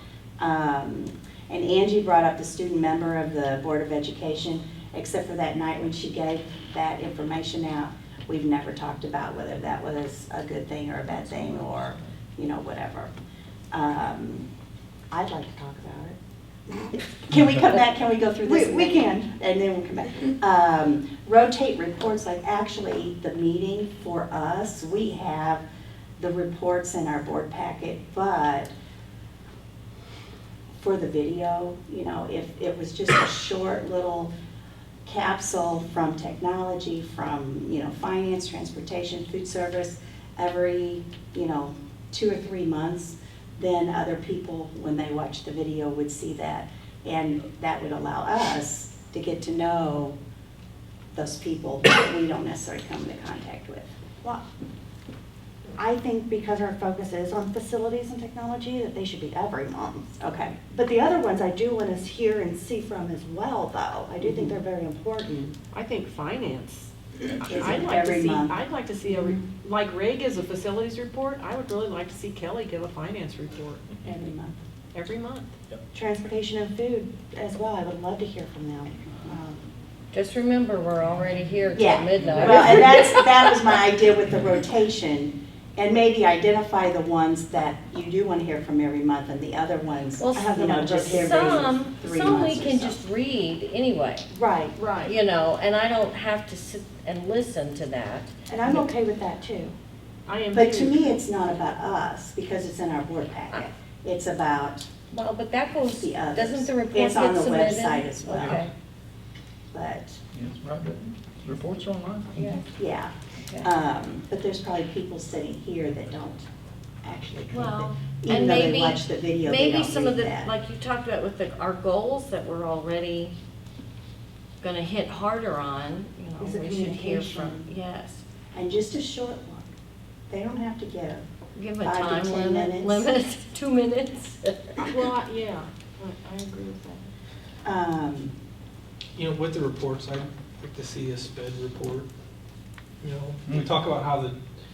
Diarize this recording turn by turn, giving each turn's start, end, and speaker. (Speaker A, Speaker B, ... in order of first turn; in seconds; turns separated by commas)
Speaker A: 0.4-13.1, Speaker B: 11.2-12.1, Speaker A: 13.7-14.5, Speaker C: 15.1-16.1, Speaker A: 15.1-15.8, Speaker A: 16.7-25.6, Speaker C: 18.4-19.1, Speaker A: 26.2-28.7, Speaker A: 30.8-34.3, Speaker A: 35.1-50.2, Speaker A: 51.1-53.9, Speaker C: 55.8-65.5, Speaker A: 60.2-60.6, Speaker A: 64.2-64.6, Speaker D: 65.7-74.0, Speaker A: 67.4-68.6, Speaker A: 74.0-74.5, Speaker D: 74.9-75.5, Speaker C: 75.9-79.6, Speaker B: 80.1-82.8, Speaker A: 81.7-93.0, Speaker E: 82.2-82.7, Speaker B: 90.2-94.3, Speaker C: 90.4-91.3, Speaker C: 94.3-94.8, Speaker D: 94.8-95.1, Speaker B: 95.0-98.9, Speaker C: 98.5-99.8, Speaker D: 100.3-101.2, Speaker A: 100.5-104.9, Speaker B: 105.1-108.7, Speaker A: 105.8-108.6, Speaker E: 108.3-108.6, Speaker A: 109.7-110.2, Speaker E: 110.3-112.6, Speaker B: 112.3-112.6, Speaker A: 112.7-116.5, Speaker A: 117.0-120.5, Speaker B: 117.5-123.4, Speaker B: 124.6-128.2, Speaker A: 126.4-127.7, Speaker A: 128.5-129.7, Speaker A: 130.3-131.3, Speaker B: 131.6-134.9, Speaker A: 131.8-133.1, Speaker D: 134.8-137.1, Speaker A: 137.6-138.3, Speaker F: 139.2-142.1, Speaker F: 143.0-144.4, Speaker E: 143.5-143.7